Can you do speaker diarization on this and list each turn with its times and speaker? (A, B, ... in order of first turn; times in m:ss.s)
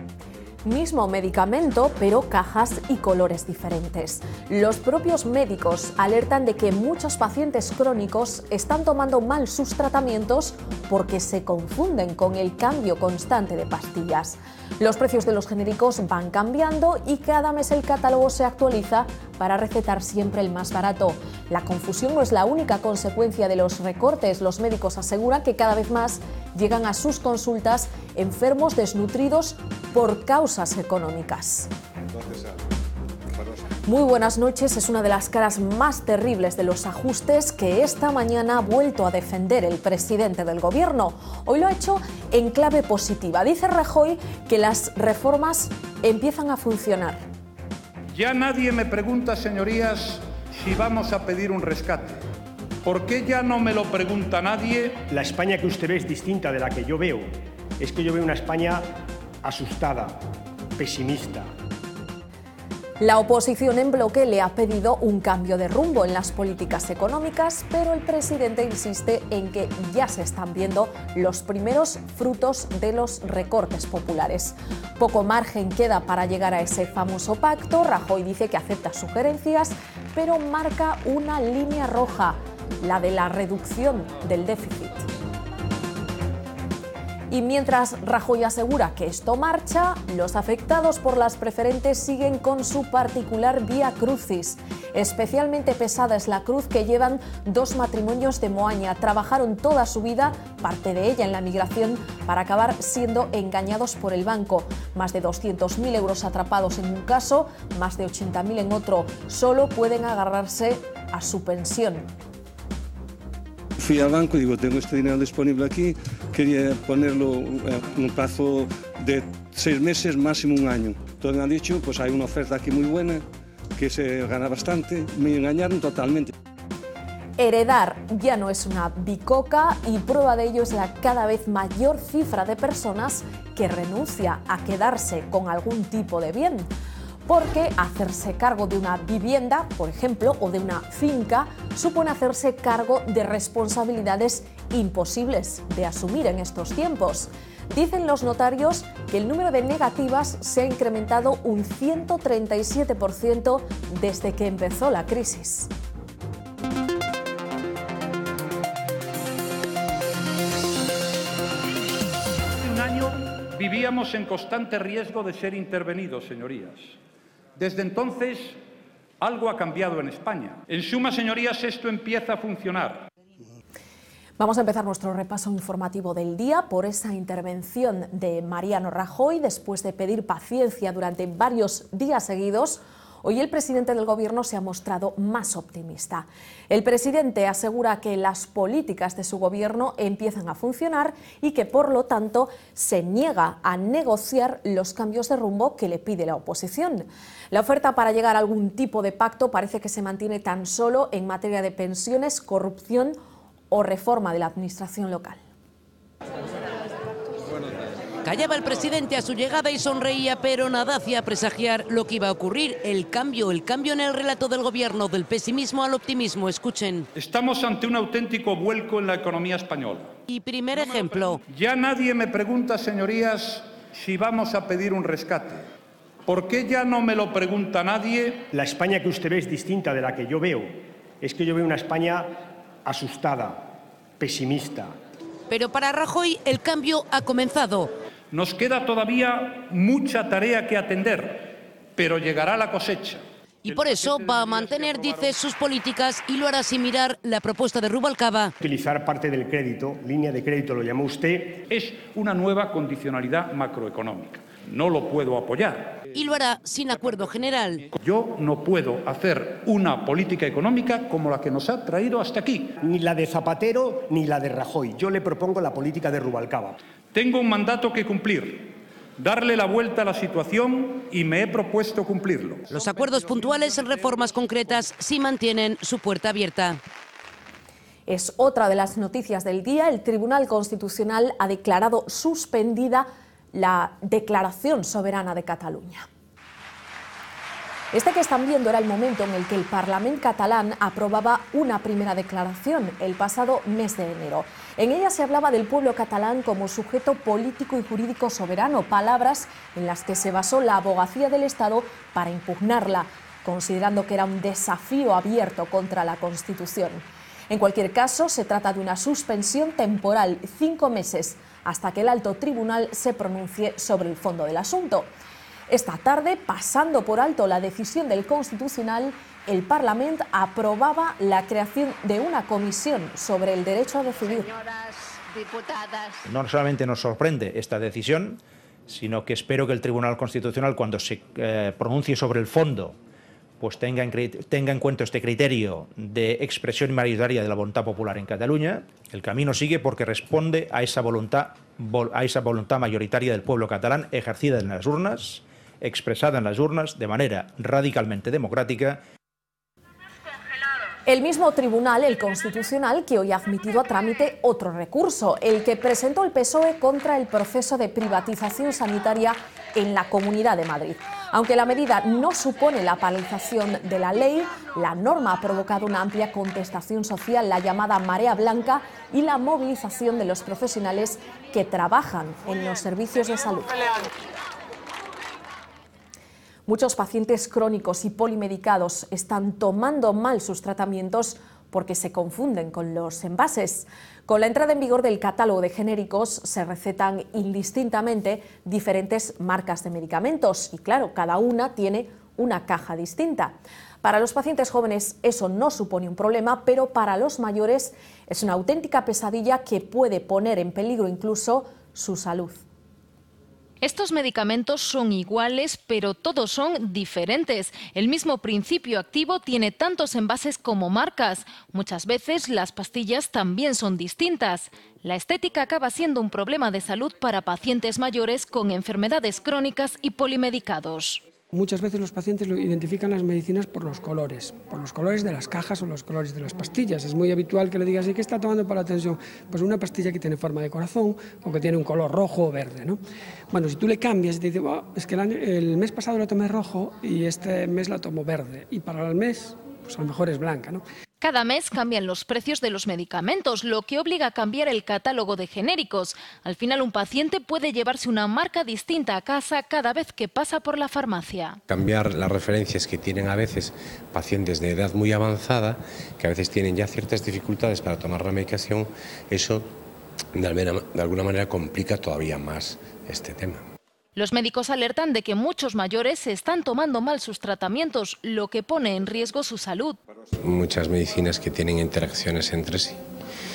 0:00.6-0:31.7 A
0:33.9-0:47.2 A
0:48.1-0:52.2 B
0:52.8-0:55.0 B
0:55.1-1:00.2 C
1:00.8-1:01.5 C
1:03.0-1:25.1 A
1:27.3-1:52.1 A
1:53.8-2:03.2 D
2:03.8-2:06.3 D
2:07.4-2:16.7 A
2:17.3-2:35.7 A
2:42.6-2:47.0 B
2:47.6-2:48.6 B
2:49.2-2:53.1 B
2:54.4-3:23.2 A
3:23.7-3:25.4 A
3:28.2-3:37.1 E
3:37.2-3:40.1 B
3:40.3-3:41.4 E
3:40.7-3:45.7 B
3:46.3-3:48.5 B
3:48.5-3:53.7 C
3:54.2-3:54.9 C
3:55.5-3:57.9 E
3:58.3-4:05.4 B
4:03.6-4:08.5 E
4:08.6-4:11.6 C
4:11.7-4:16.0 B
4:16.1-4:17.8 E
4:18.0-4:22.8 B
4:22.8-4:26.8 C
4:27.1-4:33.8 B
4:32.7-4:36.8 E
4:38.1-4:46.1 A
4:47.9-5:15.1 A
5:15.7-5:24.5 A
5:26.3-5:33.0 F
5:33.6-5:49.0 F
5:51.1-6:14.0 A
6:16.7-6:42.6 A
6:43.8-7:01.2 G
7:01.5-7:20.8 H
7:21.2-7:31.6 G
7:31.7-7:39.7 I
7:40.4-7:43.6 I
7:44.2-7:50.0 G
7:50.4-7:53.0 I